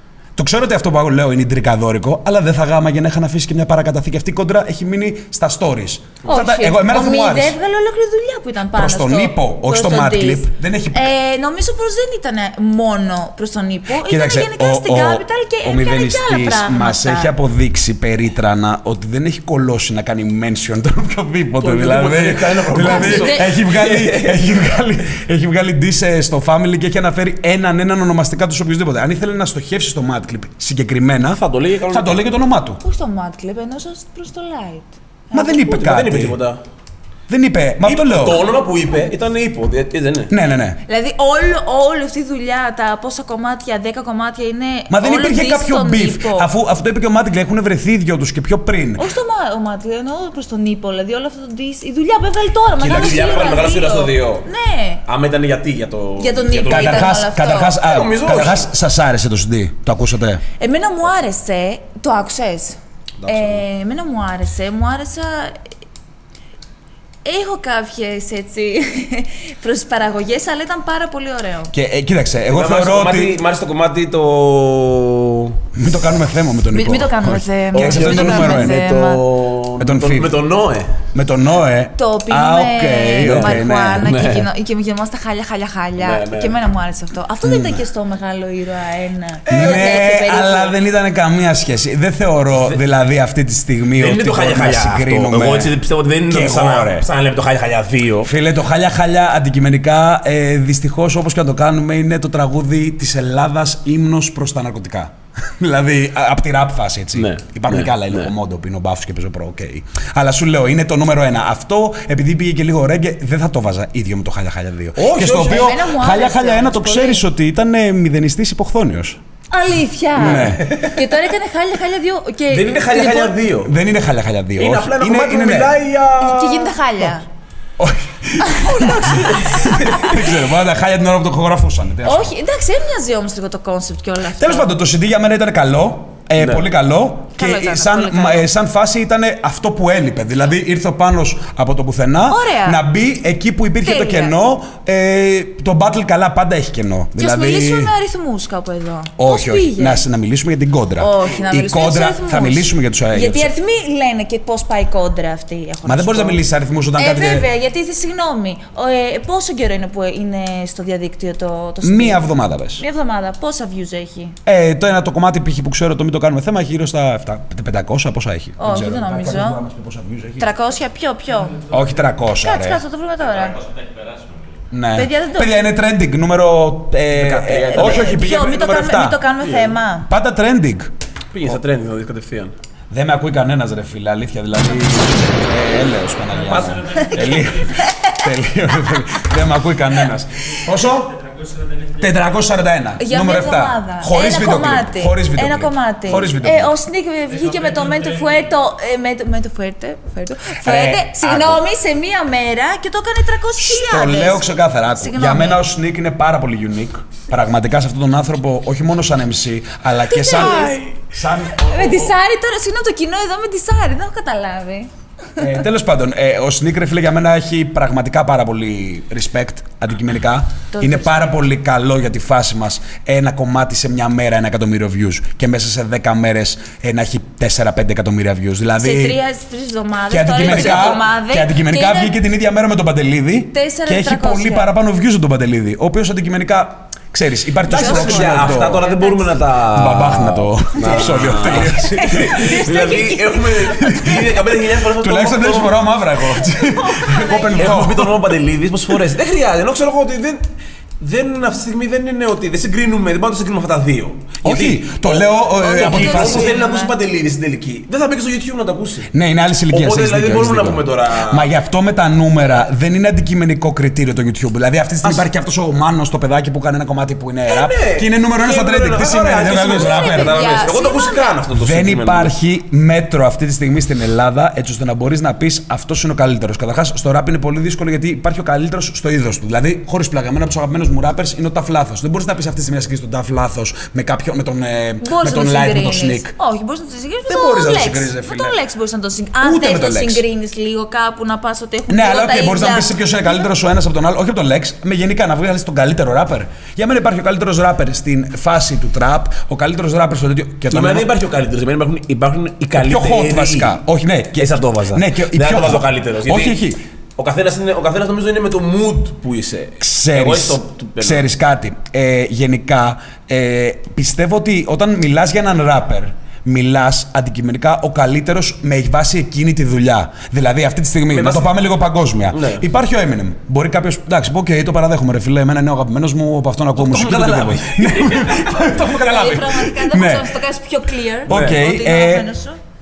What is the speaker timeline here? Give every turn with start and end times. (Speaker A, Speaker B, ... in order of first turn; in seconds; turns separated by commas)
Speaker A: 0.4-7.6, Speaker B: 6.3-17.3, Speaker A: 8.8-11.1, Speaker A: 14.0-32.8, Speaker C: 21.6-24.4, Speaker B: 22.8-23.4, Speaker C: 31.3-32.2, Speaker B: 32.8-35.5, Speaker A: 35.3-36.4, Speaker C: 35.3-36.6, Speaker A: 37.3-38.5, Speaker C: 37.8-40.3, Speaker A: 40.3-40.8, Speaker B: 40.9-46.5, Speaker A: 44.9-49.0, Speaker B: 49.0-55.0, Speaker C: 52.8-54.5, Speaker A: 52.8-53.3, Speaker C: 55.1-57.2, Speaker B: 56.2-57.8, Speaker A: 56.7-60.4, Speaker C: 57.8-58.7, Speaker B: 60.6-65.6, Speaker C: 63.2-63.6, Speaker B: 67.2-71.7, Speaker A: 71.7-73.4, Speaker C: 72.5-75.6, Speaker A: 75.8-78.8, Speaker B: 76.7-79.2, Speaker C: 77.7-80.9, Speaker A: 79.8-80.3, Speaker A: 81.1-84.2, Speaker B: 82.0-90.8, Speaker C: 83.2-84.5, Speaker C: 86.0-86.6, Speaker A: 87.4-87.8, Speaker A: 89.5-95.7, Speaker C: 94.0-98.3, Speaker A: 96.3-97.1, Speaker A: 98.2-119.2, Speaker C: 107.2-108.3, Speaker C: 115.0-115.8, Speaker B: 115.4-117.2, Speaker B: 119.5-123.4, Speaker A: 120.2-120.7, Speaker C: 120.2-121.0, Speaker C: 122.5-123.7, Speaker A: 123.6-125.8, Speaker C: 124.6-126.8, Speaker B: 126.2-127.3, Speaker A: 127.8-132.3, Speaker C: 128.6-130.3, Speaker B: 132.1-134.7, Speaker A: 134.4-147.9, Speaker B: 137.4-138.5, Speaker B: 142.3-142.8, Speaker B: 143.8-144.3, Speaker B: 147.2-150.0, Speaker A: 149.2-153.5, Speaker B: 151.0-156.4, Speaker A: 155.8-157.5, Speaker B: 157.0-164.4, Speaker A: 161.8-162.8, Speaker A: 164.4-170.5, Speaker B: 168.6-169.6, Speaker B: 170.4-171.7, Speaker A: 171.7-172.8, Speaker B: 172.4-173.6, Speaker A: 174.7-179.2, Speaker B: 174.9-175.6, Speaker C: 177.1-178.1, Speaker B: 177.7-180.1, Speaker C: 179.4-179.8, Speaker A: 180.0-180.9, Speaker C: 181.3-182.5, Speaker A: 182.9-191.2, Speaker C: 186.5-187.5, Speaker B: 187.7-188.2, Speaker A: 191.9-196.8, Speaker B: 193.0-204.4, Speaker A: 200.6-201.6, Speaker A: 203.6-212.1, Speaker B: 205.0-205.6, Speaker B: 210.1-210.9, Speaker C: 210.3-210.8, Speaker B: 211.6-214.9, Speaker A: 215.4-229.2, Speaker B: 220.7-221.3, Speaker B: 228.8-232.2, Speaker A: 230.1-238.9, Speaker C: 230.5-231.0, Speaker B: 233.5-234.7, Speaker C: 237.7-245.8, Speaker B: 237.7-239.3, Speaker A: 239.7-242.4, Speaker B: 240.9-244.2, Speaker A: 243.8-248.2, Speaker B: 246.4-247.8, Speaker C: 247.6-250.4, Speaker C: 251.0-259.1, Speaker A: 254.4-256.5, Speaker B: 255.6-256.9, Speaker A: 259.1-270.6, Speaker C: 259.7-261.5, Speaker C: 267.5-272.3, Speaker B: 269.6-271.4, Speaker A: 271.5-286.3, Speaker B: 285.0-293.4, Speaker A: 287.3-288.6, Speaker A: 289.4-290.2, Speaker A: 291.9-301.1, Speaker C: 300.7-303.8, Speaker A: 302.8-306.8, Speaker C: 304.4-306.6, Speaker C: 307.2-311.2, Speaker A: 309.8-330.4, Speaker C: 321.1-321.5, Speaker C: 322.3-322.6, Speaker C: 326.8-328.8, Speaker B: 328.8-332.6, Speaker A: 331.3-332.3, Speaker C: 331.3-331.6